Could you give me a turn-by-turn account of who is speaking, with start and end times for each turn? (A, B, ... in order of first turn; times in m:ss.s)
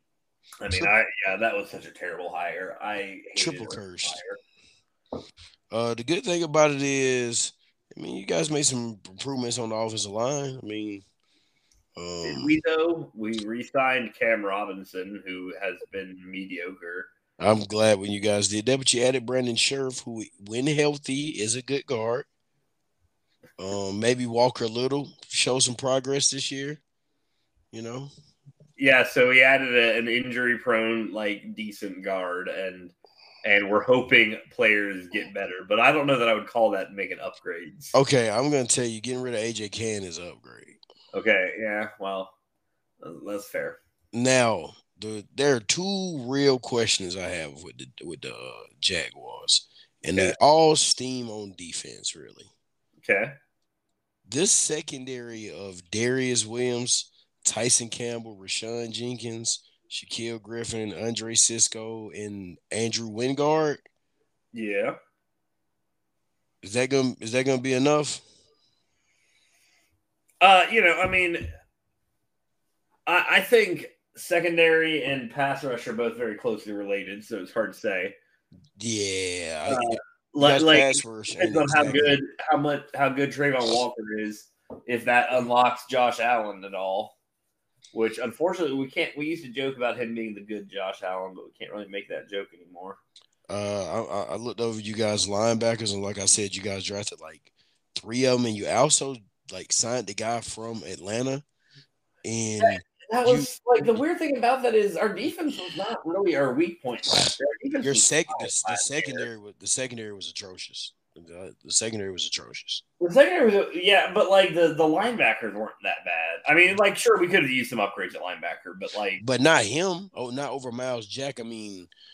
0:00.6-0:04.4 A
0:03.4-0:04.2 B
0:05.7-0:11.0 B
0:12.0-0:12.6 B
0:12.2-0:17.1 A
0:17.4-0:22.3 B
0:23.6-0:26.8 B
0:27.7-0:28.1 B
0:28.8-0:37.9 A
0:37.9-0:40.8 B
0:41.1-0:42.3 A
0:43.0-0:43.8 A
0:44.1-0:52.5 B
0:53.0-0:53.3 A
0:54.2-1:03.8 B
1:04.5-1:05.0 A
1:06.6-1:08.2 B
1:10.4-1:11.4 A
1:13.1-1:18.1 A
1:18.8-1:22.2 B
1:19.7-1:27.1 A
1:27.9-1:33.0 A
1:33.5-1:41.4 B
1:42.2-1:43.5 B
1:42.6-1:49.3 A
1:47.8-1:52.8 B
1:53.0-1:59.2 A
1:59.2-2:01.9 B